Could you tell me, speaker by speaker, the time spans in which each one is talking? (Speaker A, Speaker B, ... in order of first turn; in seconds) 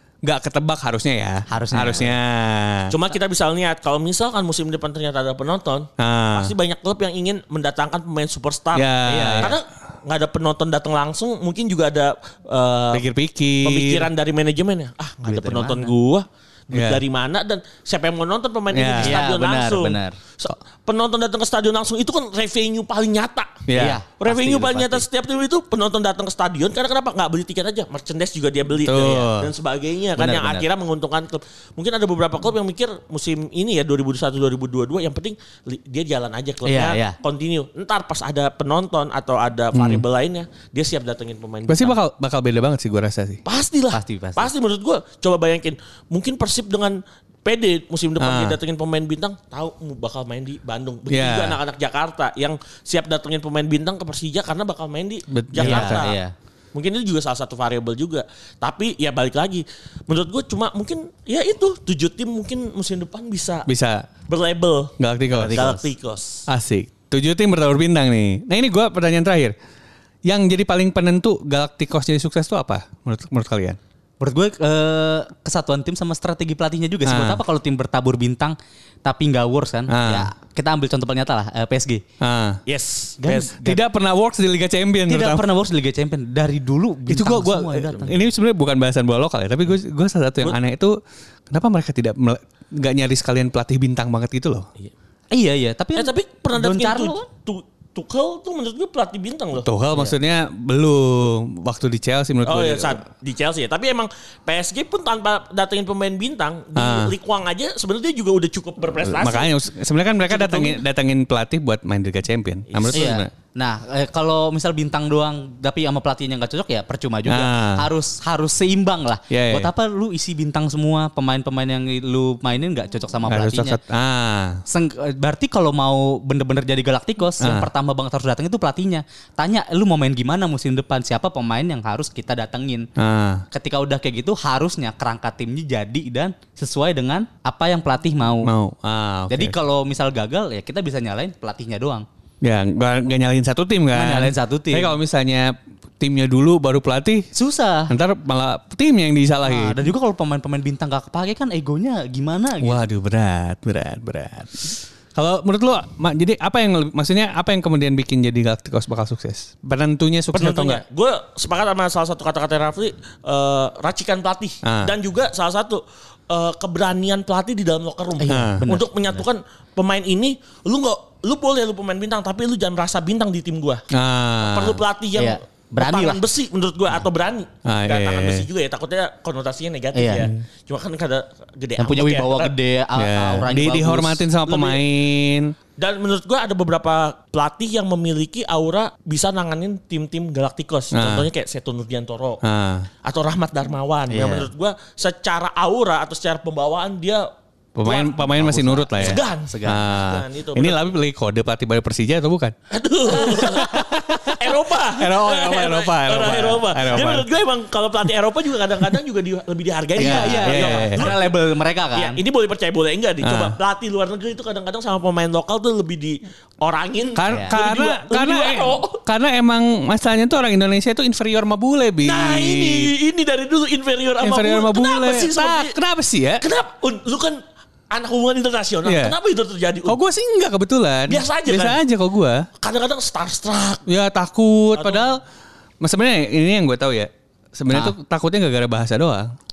Speaker A: 0.2-2.9, 6.0-6.5, 8.7-9.5, 12.9-14.1, 16.7-17.0, 18.7-19.2, 23.7-24.0, 28.8-29.5, 39.7-40.0, 41.7-43.4, 48.2-48.6, 51.1-51.6, 55.3-56.1, 63.7-64.1, 65.0-65.7, 66.5-69.6, 70.2-73.8, 77.0-77.4, 79.9-80.3, 82.2-82.6, 83.6-85.5, 87.1-91.0, 91.5-94.7, 99.6-103.0, 106.8-107.1, 109.0-113.3, 117.3-117.9, 119.3-119.7, 123.3-124.6, 127.4-127.7, 133.0-133.4, 138.4-139.6, 142.4-147.3, 147.9-149.9, 152.6-160.8, 164.6-164.9, 168.3-168.6, 173.9-174.8, 177.7-178.5, 183.0-185.5, 190.9-191.3, 192.4-192.9, 197.8-202.5, 203.4-207.3, 210.0-211.1, 213.2-213.6, 217.2-222.9, 224.2-226.4, 228.8-229.2, 229.9-232.5, 233.9-235.2, 235.8-239.3
Speaker B: 1.5-2.1, 9.1-9.5, 15.2-15.9, 19.0-20.1, 23.8-25.0, 30.2-30.6, 36.6-37.2, 43.9-44.5, 55.6-56.3, 65.3-65.9, 74.2-82.0, 83.2-83.8, 85.1-88.2, 95.3-97.2, 112.9-123.8, 124.7-132.9, 133.5-138.5, 139.3-142.1, 143.9-144.9, 147.3-147.9, 149.4-152.8, 168.2-169.3, 175.2-176.2, 179.9-180.3, 181.8-184.2, 194.1-194.5, 198.4-199.9, 210.0-212.2, 217.3-217.6
Speaker C: 2.9-8.9, 9.4-13.0, 13.6-23.7, 24.2-42.0, 43.5-56.2, 56.7-63.7, 64.3-65.0, 65.5-66.4, 82.7-83.5, 96.0-99.7, 102.5-109.5, 110.3-110.8, 112.7-113.2, 160.3-173.8, 174.5-182.5, 184.5-184.8, 185.8-192.4, 193.0-197.3, 197.8-198.3, 199.0-200.9, 202.7-211.3, 211.9-219.0, 222.0-225.8, 226.4-227.4, 227.9-230.0, 231.1-231.8, 232.6-233.8, 234.8-235.1